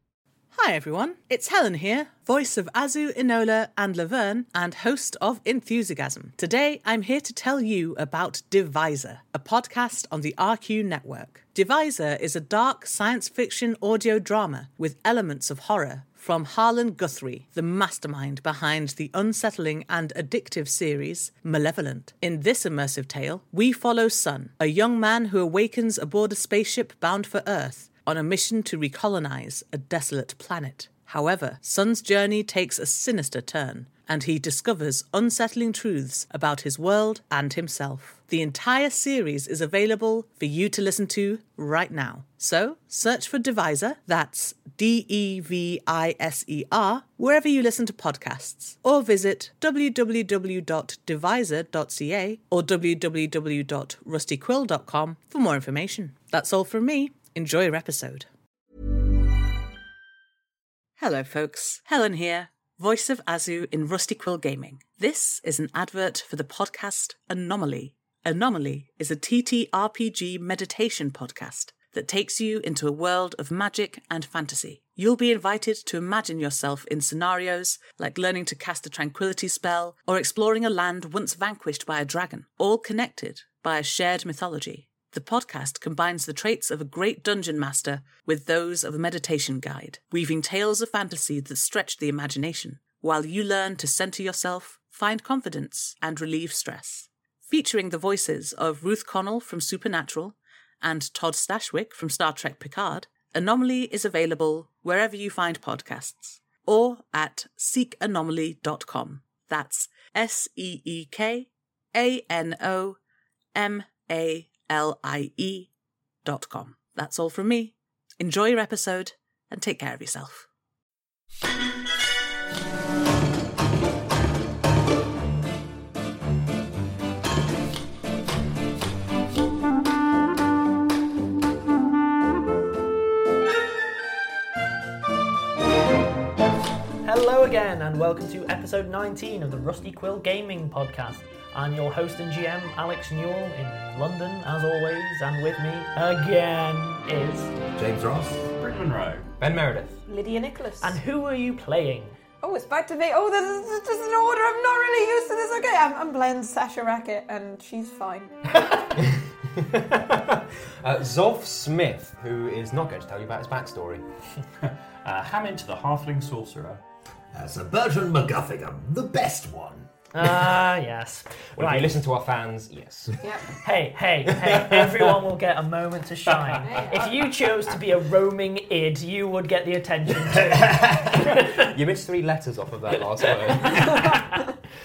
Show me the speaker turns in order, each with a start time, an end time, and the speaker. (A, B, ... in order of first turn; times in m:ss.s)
0:00.5-0:58.3 A
1:01.0-1:53.0 A
1:53.6-1:55.7 A
1:56.2-2:00.5 A
2:17.0-2:27.5 B
2:27.8-2:28.4 C
2:28.6-2:29.3 D
2:29.4-2:30.0 E
2:30.1-2:31.0 F
2:30.8-2:32.2 B
2:32.4-2:38.4 F
2:38.6-2:44.0 E
2:44.6-2:46.8 D
2:47.3-2:49.9 C
2:50.1-2:52.0 B
2:51.6-2:53.2 E
2:53.2-2:53.5 F
2:53.6-3:01.7 B
2:54.3-2:55.1 E
2:56.6-2:57.0 F
3:00.7-3:04.0 E
3:03.2-3:04.5 B